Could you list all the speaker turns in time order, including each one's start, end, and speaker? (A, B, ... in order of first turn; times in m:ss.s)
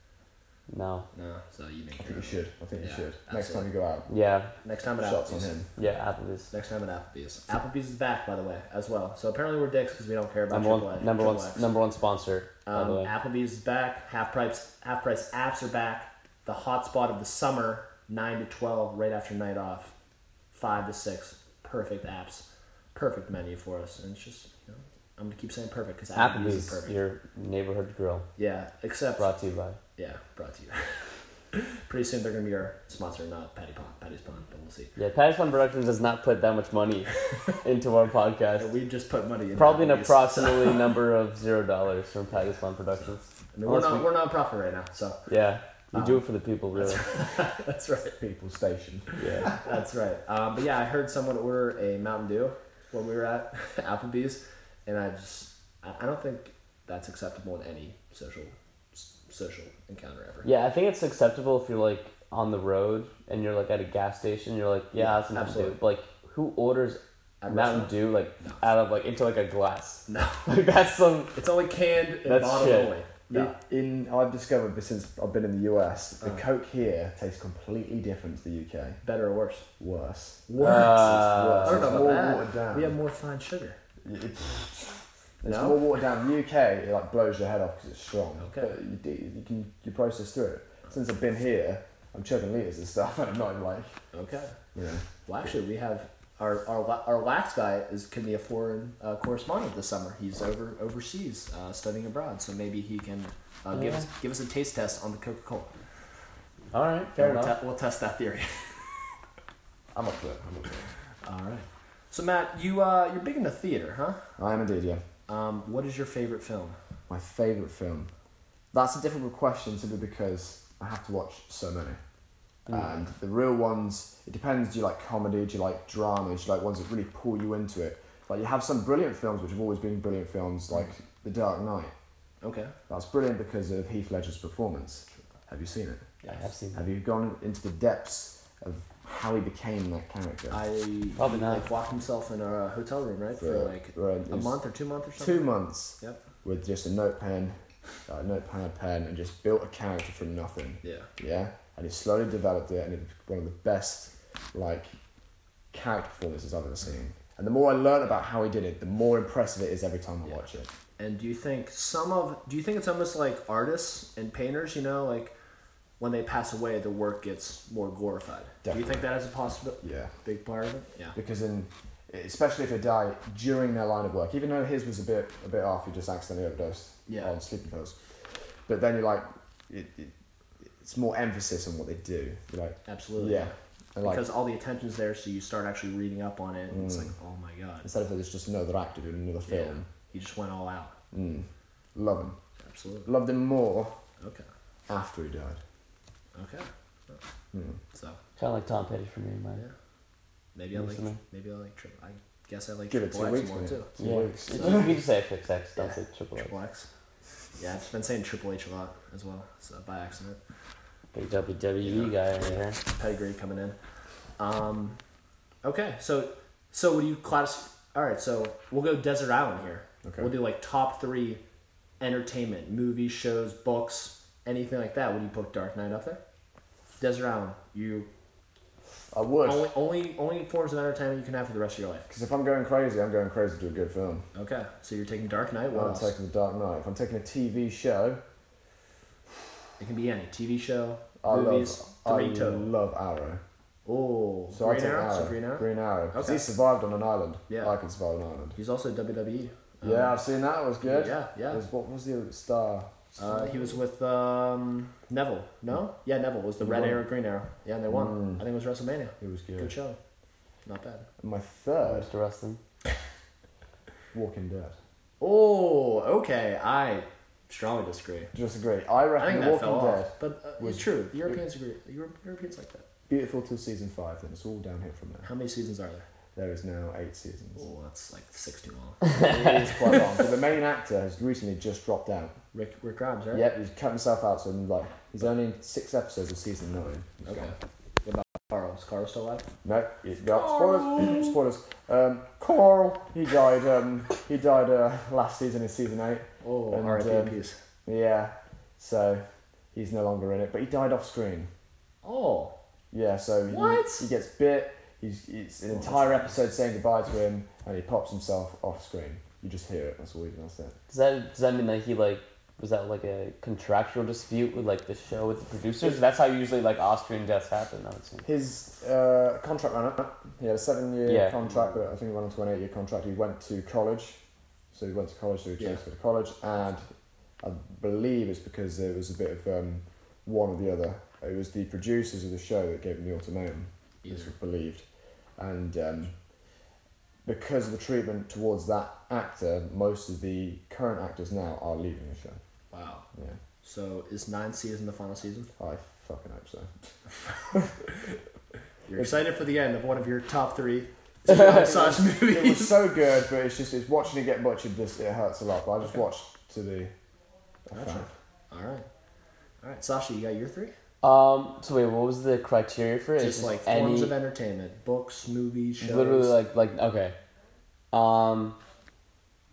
0:00.7-0:01.1 A
0:01.1-0:03.7 B
0:02.0-0:04.1 C
0:04.1-0:04.5 A
0:04.6-0:05.6 B
0:05.0-0:05.7 C
0:05.8-0:06.5 A
0:06.5-0:11.7 B
0:10.5-0:13.1 A
0:12.7-0:19.9 B
0:20.5-0:27.0 B
0:26.1-0:28.3 A
0:28.4-0:29.3 B
0:29.2-0:29.8 A
0:30.0-0:31.1 B
0:31.7-0:34.9 B
0:35.0-0:38.7 A
0:38.6-0:41.0 B
0:39.5-0:44.1 A
0:43.5-0:45.3 B
0:45.3-0:47.3 A
0:45.9-0:48.2 B
0:48.2-0:49.5 C
0:49.2-0:49.6 A
0:49.5-1:00.5 B
1:00.4-1:11.4 A
1:05.0-1:05.8 B
1:07.4-1:08.6 B
1:10.1-1:10.5 B
1:11.4-1:13.6 B
1:12.2-1:13.0 A
1:13.3-1:19.0 C
1:19.0-1:19.7 B
1:19.8-1:23.0 C
1:20.5-1:23.8 B
1:20.6-1:22.0 A
1:24.0-1:34.0 C
1:25.4-1:25.8 B
1:28.4-1:28.7 B
1:34.1-1:34.6 B
1:34.7-1:35.1 C
1:35.3-1:45.8 B
1:43.7-1:44.1 A
1:46.7-1:47.6 A
1:47.2-1:49.0 B
1:49.9-1:50.8 C
1:51.2-1:54.3 B
1:54.4-1:55.0 C
1:55.3-1:56.8 B
1:57.1-1:58.1 C
1:58.7-2:02.0 C
2:02.7-2:11.9 C
2:12.4-2:12.8 B
2:12.9-2:16.1 C
2:16.2-2:16.5 B
2:16.3-2:16.9 A
2:16.7-2:20.6 C
2:20.5-2:26.2 B
2:21.2-2:21.7 A
2:23.4-2:24.6 C
2:25.2-2:35.0 C
2:30.8-2:31.1 B
2:35.7-2:40.7 C
2:41.0-2:45.3 B
2:46.0-2:51.2 B
2:48.6-2:49.1 C
2:49.8-2:50.1 C
2:51.1-2:58.1 C
2:57.1-2:57.3 B
2:58.7-3:04.3 C
3:02.9-3:07.9 B
3:06.7-3:07.1 C
3:07.8-3:09.9 C
3:09.5-3:11.0 B
3:11.1-3:12.4 C
3:12.6-3:13.1 B
3:13.1-3:14.0 C
3:14.2-3:14.4 B
3:14.9-3:15.6 C
3:16.4-3:17.2 B
3:17.5-3:17.8 C
3:17.9-3:18.2 B
3:18.4-3:19.6 A
3:20.6-3:24.0 B
3:20.7-3:21.2 A
3:22.9-3:25.0 C
3:24.0-3:26.6 A
3:25.8-3:26.9 B
3:27.6-3:30.4 B
3:31.1-3:32.8 A
3:31.8-3:33.8 B
3:34.4-3:35.0 B
3:35.6-3:41.4 B
3:40.0-3:40.3 C
3:42.0-3:46.2 B
3:47.0-3:48.1 B
3:49.1-3:49.7 C
3:49.4-3:52.1 B
3:52.1-3:54.3 C
3:54.3-3:56.1 B
3:55.7-3:58.2 C
3:59.8-4:02.7 B
4:01.2-4:03.4 C
4:03.8-4:06.4 B
4:04.5-4:08.6 C
4:07.5-4:07.7 B
4:08.6-4:10.2 B
4:09.8-4:13.6 C
4:10.8-4:11.6 B
4:13.2-4:20.0 B
4:16.6-4:17.1 C
4:17.9-4:18.4 C
4:19.2-4:19.8 C
4:20.6-4:21.1 B
4:21.2-4:22.1 C
4:21.8-4:22.6 A
4:24.1-4:24.8 C
4:25.2-4:28.3 B
4:28.3-4:31.4 C
4:29.2-4:32.8 B
4:33.1-4:35.3 C
4:35.2-4:36.1 B
4:36.4-4:37.7 C
4:37.6-4:39.5 B
4:39.2-4:42.4 C
4:42.5-4:43.5 B
4:43.3-4:47.5 C
4:47.2-4:49.5 B
4:49.6-5:01.5 C
4:50.3-4:51.3 B
4:56.4-4:57.6 B
5:02.0-5:02.6 B
5:02.9-5:10.8 C
5:03.5-5:04.0 B
5:05.7-5:06.4 B
5:10.9-5:18.3 A
5:18.2-5:24.2 C
5:21.1-5:21.4 A
5:24.7-5:26.9 C
5:27.4-5:34.9 C
5:34.0-5:34.3 B
5:35.4-5:36.2 C
5:37.2-5:42.4 C
5:42.7-5:43.1 B
5:43.6-5:45.5 B
5:45.6-5:46.7 C
5:48.9-5:52.8 B
5:49.0-5:49.2 C
5:51.3-5:51.9 A
5:51.3-5:56.9 C
5:57.7-5:58.1 C
5:57.7-5:58.9 B
5:59.6-6:00.7 B
6:01.0-6:04.2 A
6:03.2-6:06.4 B
6:05.8-6:07.2 A
6:07.9-6:08.6 A